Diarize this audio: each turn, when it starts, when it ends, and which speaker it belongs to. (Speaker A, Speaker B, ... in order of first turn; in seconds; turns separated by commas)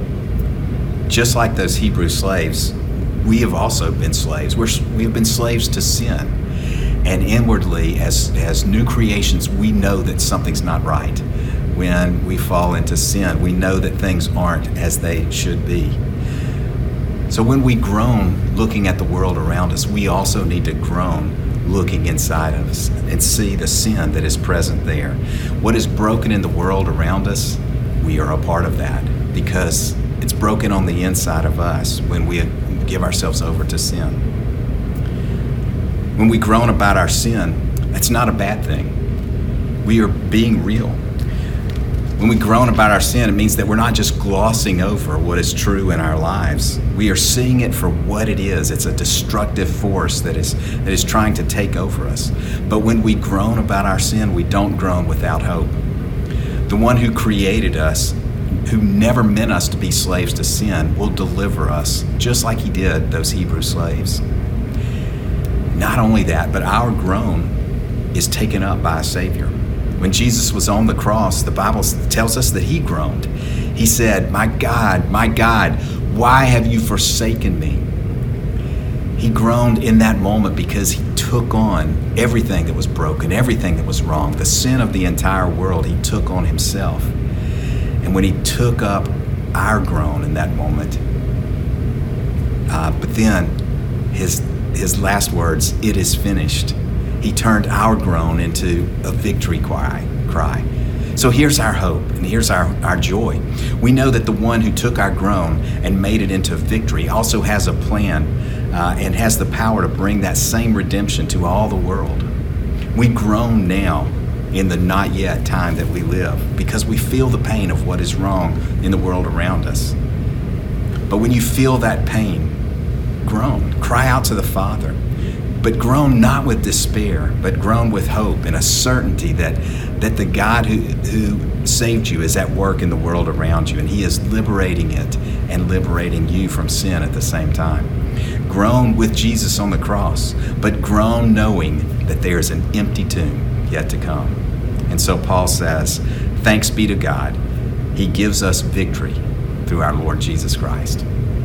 Speaker A: 1.1-6.3, Speaker A: 7.0-16.0, Speaker A: 17.3-34.2, Speaker A: 36.1-38.9, Speaker A: 39.8-41.0, Speaker A: 42.2-55.7, Speaker A: 56.7-58.1, Speaker A: 58.6-64.2, Speaker A: 65.7-67.5, Speaker A: 68.1-77.8, Speaker A: 79.2-87.1, Speaker A: 88.0-91.0, Speaker A: 92.7-93.5, Speaker A: 94.1-100.6, Speaker A: 101.1-112.3, Speaker A: 112.9-119.9, Speaker A: 121.1-122.5, Speaker A: 123.2-125.0, Speaker A: 125.6-137.9, Speaker A: 138.4-147.4, Speaker A: 147.9-151.0